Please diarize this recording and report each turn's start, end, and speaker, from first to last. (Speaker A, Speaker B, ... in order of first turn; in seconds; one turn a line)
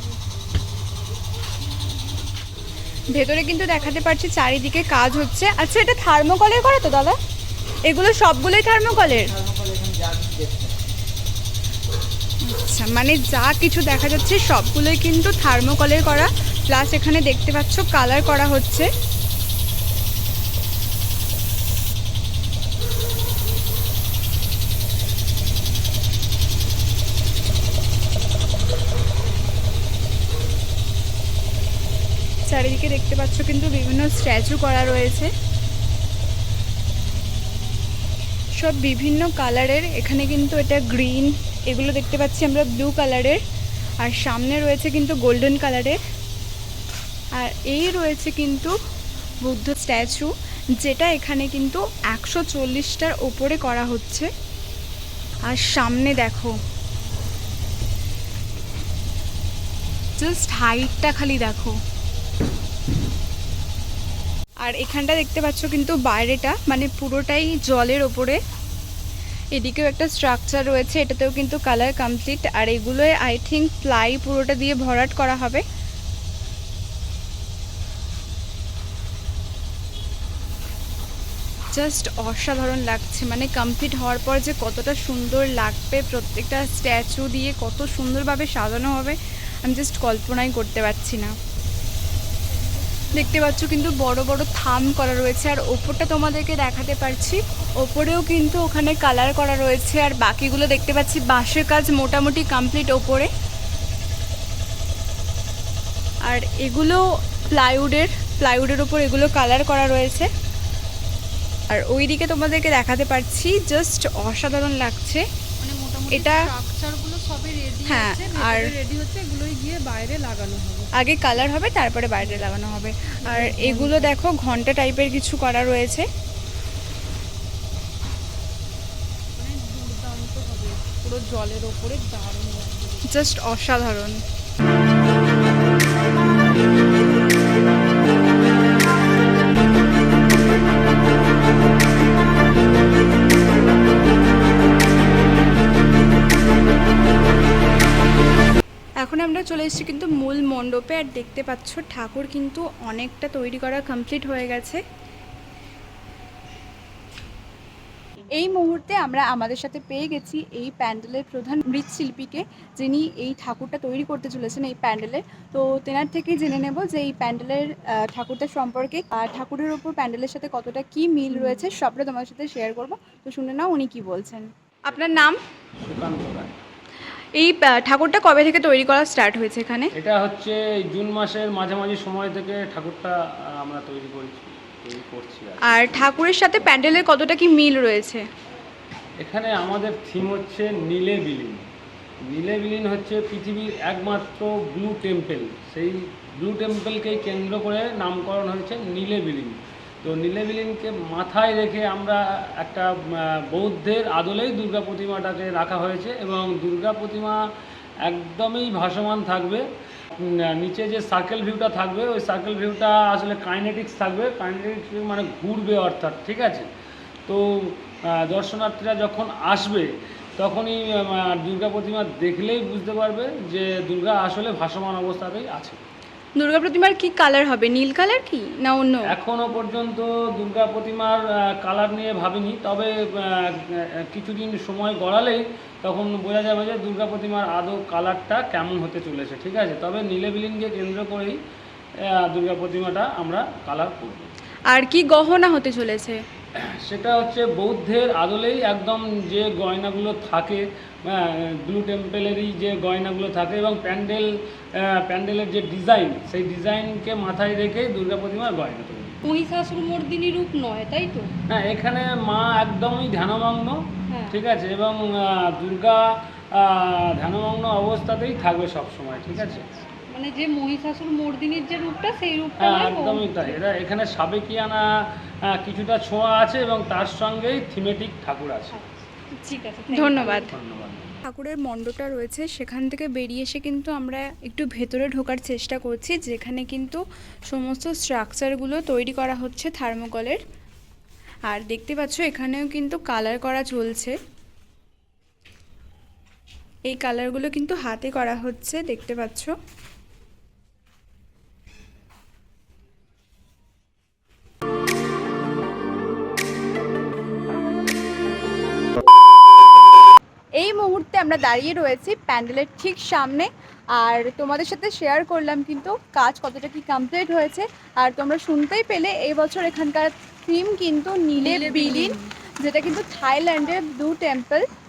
Speaker A: 3.1-7.2
Speaker A: 7.8-9.3
Speaker A: 12.4-18.9
Speaker A: 32.5-35.3
Speaker A: 38.6-43.4
Speaker A: 44.0-46.0
Speaker A: 47.4-48.7
Speaker A: 49.4-54.3
Speaker A: 55.5-56.5
Speaker A: 60.2-61.8
Speaker A: 64.6-68.4
Speaker A: 69.5-75.6
Speaker A: 81.7-91.3
Speaker B: 92.9-93.2
Speaker A: 93.1-103.3
Speaker A: 106.2-110.3
Speaker A: 111.7-115.2
Speaker B: 115.6-120.9
Speaker A: 116.1-116.4
Speaker A: 117.9-118.7
Speaker A: 120.9-126.0
Speaker B: 122.2-122.5
Speaker B: 123.2-124.1
Speaker B: 129.4-133.3
Speaker A: 133.1-134.2
Speaker A: 149.0-154.8
Speaker A: 158.3-175.4
Speaker C: 175.8-176.6
Speaker A: 177.4-179.9
Speaker C: 179.9-186.6
Speaker A: 185.6-188.2
Speaker C: 189.2-191.7
Speaker C: 192.2-207.4
Speaker C: 208.0-216.7
Speaker C: 217.2-225.8
Speaker A: 226.4-229.1
Speaker C: 229.1-241.4
Speaker C: 242.0-244.3
Speaker A: 244.7-246.2
Speaker C: 246.6-259.2
Speaker B: 259.2-261.3
Speaker C: 261.5-269.8
Speaker B: 264.1-264.4
Speaker B: 270.1-273.5
Speaker C: 272.6-274.9
Speaker C: 275.5-278.8
Speaker B: 278.7-280.5
Speaker A: 279.9-280.5
Speaker C: 280.0-281.2
Speaker A: 281.2-290.4
Speaker A: 291.5-294.1
Speaker A: 296.9-299.5
Speaker A: 310.6-324.6
Speaker B: 321.4-322.3